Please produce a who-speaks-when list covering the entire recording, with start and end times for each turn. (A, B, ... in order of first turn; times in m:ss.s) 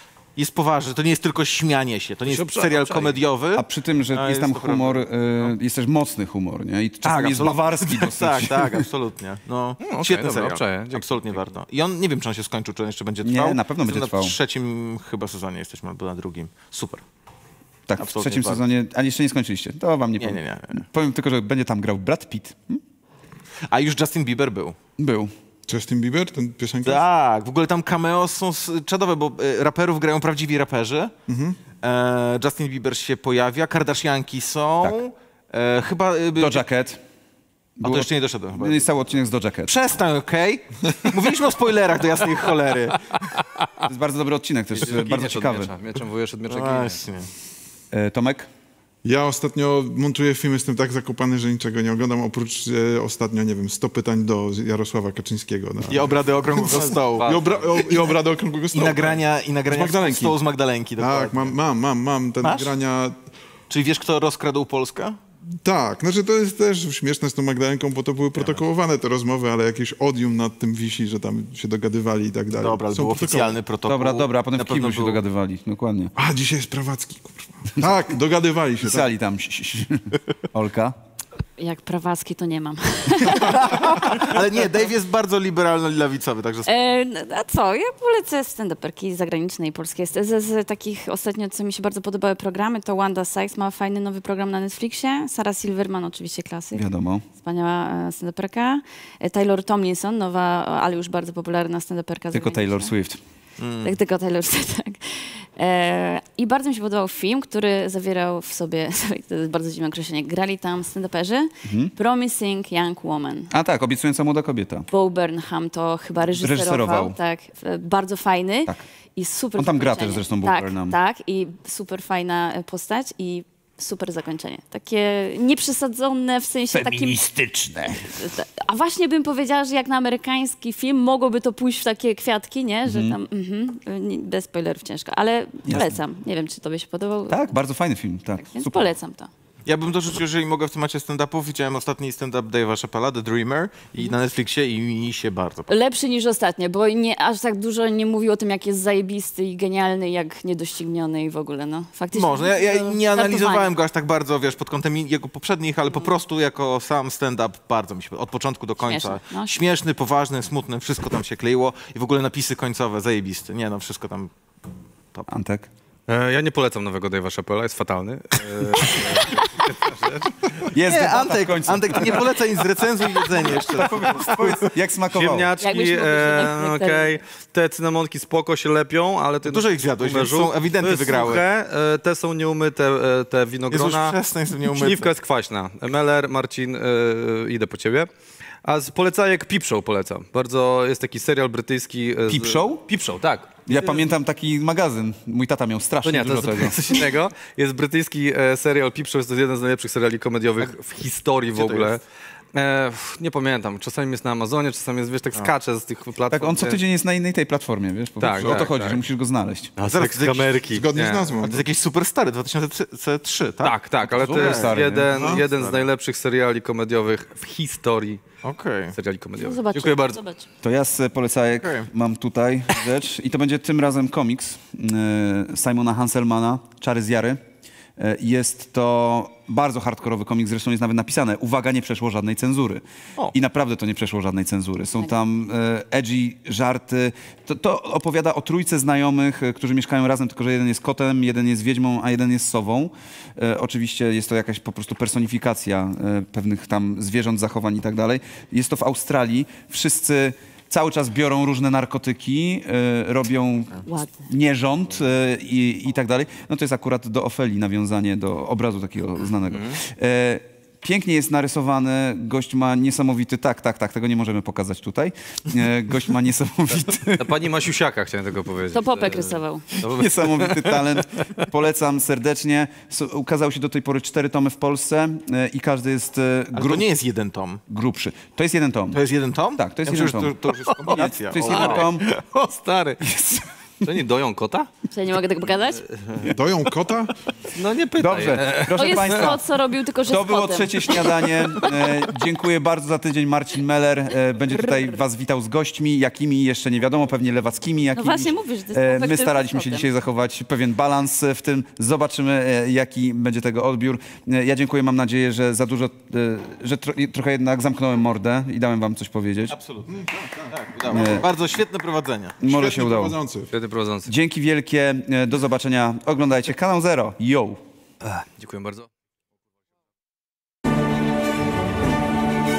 0:00.4-0:05.5 A
0:02.3-0:03.2 B
0:03.5-0:08.8 C
0:07.0-0:17.0 A
0:09.8-0:11.5 B
0:13.2-0:14.4 C
0:17.9-0:22.8 C
0:18.0-0:18.6 A
0:20.2-0:20.8 A
0:23.7-0:24.8 A
0:25.0-0:25.3 C
0:25.7-0:27.0 D
0:26.8-0:31.1 A
0:31.3-0:31.6 D
0:31.8-0:36.6 A
0:36.4-0:37.0 C
0:37.8-0:39.7 C
0:37.8-0:39.0 A
0:39.7-0:43.3 A
0:43.8-0:45.7 C
0:44.8-0:47.0 B
0:46.5-0:47.3 A
0:47.9-0:48.5 C
0:49.0-1:00.4 D
0:55.9-0:58.2 A
0:57.2-0:57.9 B
0:58.7-1:01.6 A
1:01.0-1:03.2 D
1:02.4-1:02.8 A
1:03.7-1:05.2 A
1:05.6-1:13.5 D
1:08.4-1:08.6 A
1:12.5-1:15.2 A
1:13.9-1:16.1 C
1:16.2-1:19.1 D
1:18.8-1:21.0 C
1:21.6-1:24.2 E
1:23.7-1:26.7 A
1:26.7-1:36.8 E
1:36.7-1:37.2 C
1:37.4-1:42.9 E
1:42.3-1:43.2 C
1:43.6-1:44.0 A
1:43.8-1:53.5 E
1:51.6-1:51.9 C
1:53.5-1:54.9 C
1:54.9-2:07.2 E
1:56.3-1:57.2 C
1:59.6-2:01.0 C
2:06.7-2:08.1 C
2:08.1-2:17.6 E
2:12.9-2:13.2 C
2:15.7-2:16.0 C
2:17.3-2:18.9 C
2:18.4-2:19.3 E
2:19.7-2:25.7 A
2:25.7-2:33.7 E
2:32.1-2:44.3 A
2:38.8-2:39.5 E
2:45.3-2:45.7 C
2:46.1-2:50.3 B
2:50.7-2:52.4 C
2:50.9-2:54.7 A
2:53.4-2:55.5 C
2:55.1-3:08.1 B
2:55.6-2:57.2 E
2:59.5-3:01.4 A
3:03.7-3:05.1 A
3:08.6-3:14.0 B
3:12.3-3:12.8 C
3:13.7-3:16.9 C
3:16.0-3:26.8 B
3:21.5-3:21.9 A
3:26.3-3:29.7 C
3:28.2-3:29.0 B
3:28.4-3:28.7 D
3:29.8-3:31.4 B
3:29.9-3:30.6 A
3:30.7-3:31.6 D
3:31.4-3:35.9 A
3:33.6-3:38.2 B
3:34.0-3:35.2 C
3:35.1-3:35.4 D
3:38.4-3:39.0 A
3:39.0-3:40.2 B
3:39.4-3:40.5 E
3:40.6-3:47.4 C
3:41.6-3:41.9 A
3:48.0-4:27.4 C
4:13.9-4:14.3 E
4:19.5-4:19.8 B
4:27.2-4:31.5 B
4:28.7-4:29.6 E
4:29.8-4:36.9 C
4:36.6-4:37.6 A
4:37.7-4:39.0 C
4:38.9-4:42.4 A
4:39.6-4:40.4 C
4:40.9-4:42.1 C
4:41.4-4:43.0 B
4:43.0-4:43.9 C
4:43.8-4:44.7 B
4:44.9-4:45.8 E
4:45.8-4:46.3 B
4:46.2-4:47.2 D
4:47.5-4:49.4 B
4:48.0-4:49.4 C
4:48.7-4:51.1 E
4:50.0-5:09.6 C
4:54.6-4:55.0 E
4:58.0-4:59.9 E
5:09.5-5:12.4 A
5:09.9-5:11.1 D
5:10.9-5:11.3 C
5:12.4-5:13.2 C
5:12.4-5:13.5 D
5:13.5-5:14.1 B
5:14.1-5:17.6 C
5:18.0-5:18.9 B